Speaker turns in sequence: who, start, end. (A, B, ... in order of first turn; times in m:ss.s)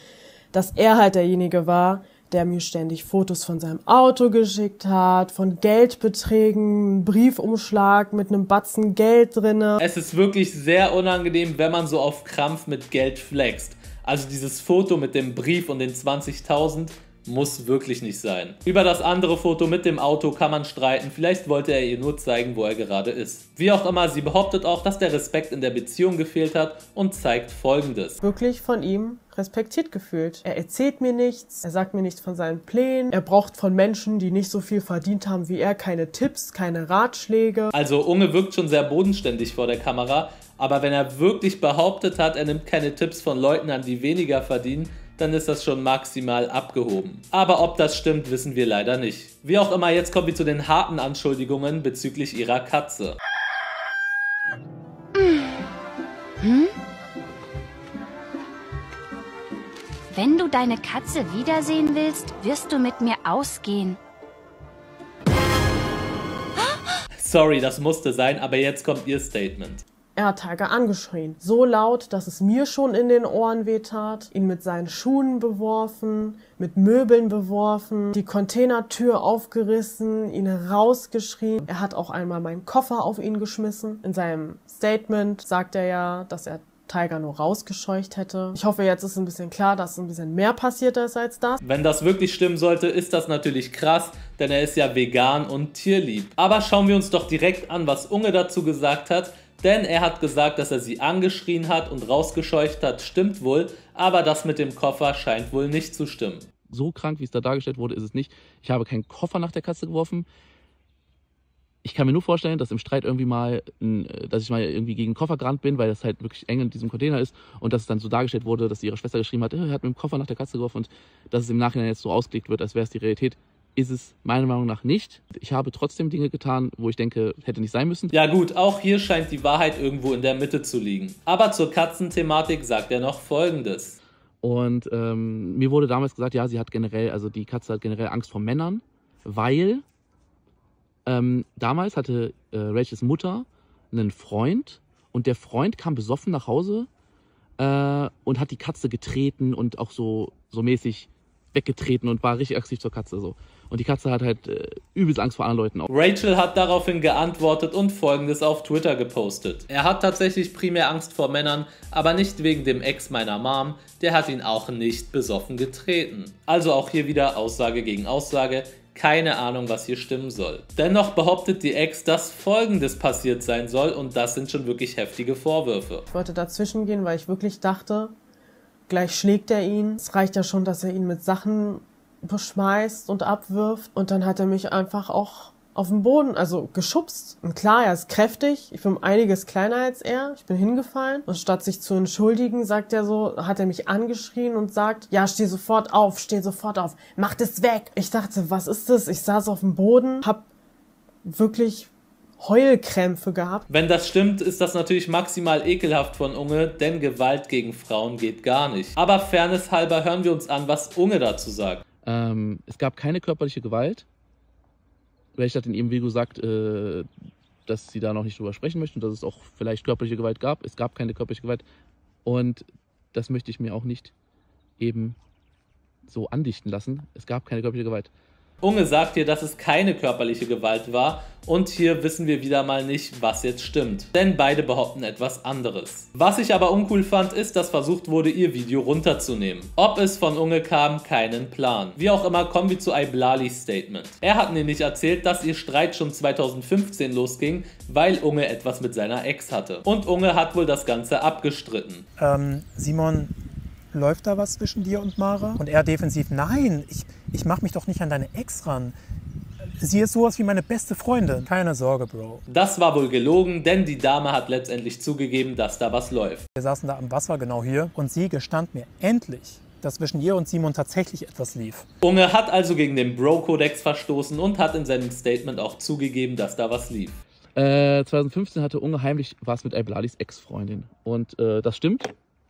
0:00.5-0:09.8 A
0:09.8-0:28.2 B
0:28.2-0:37.7 A
0:37.7-0:53.2 B
0:55.2-0:55.5 C
0:56.4-0:56.7 C
1:00.1-1:04.0 C
1:07.2-1:09.8 B
1:10.2-1:31.6 A
1:31.6-1:46.4 B
1:46.7-1:50.2 D
1:51.8-2:08.1 D
2:08.1-2:14.0 B
2:14.4-2:19.8 D
2:21.0-2:26.9 D
2:27.6-2:35.9 D
2:35.9-2:56.0 B
2:56.1-2:58.1 A
2:58.9-3:20.4 A
3:21.2-3:23.6 A
3:23.7-3:31.8 B
3:32.0-3:34.0 D
3:35.3-3:37.1 D
3:37.6-3:41.6 D
3:42.2-3:44.1 D
3:44.8-3:45.2 D
3:46.0-3:48.1 D
3:48.6-4:12.0 B
4:12.2-4:13.3 E
4:13.9-4:19.0 E
4:19.8-4:22.4 E
4:22.5-4:26.4 B
4:26.6-4:31.8 E
4:32.0-4:37.2 B
4:37.6-4:42.1 D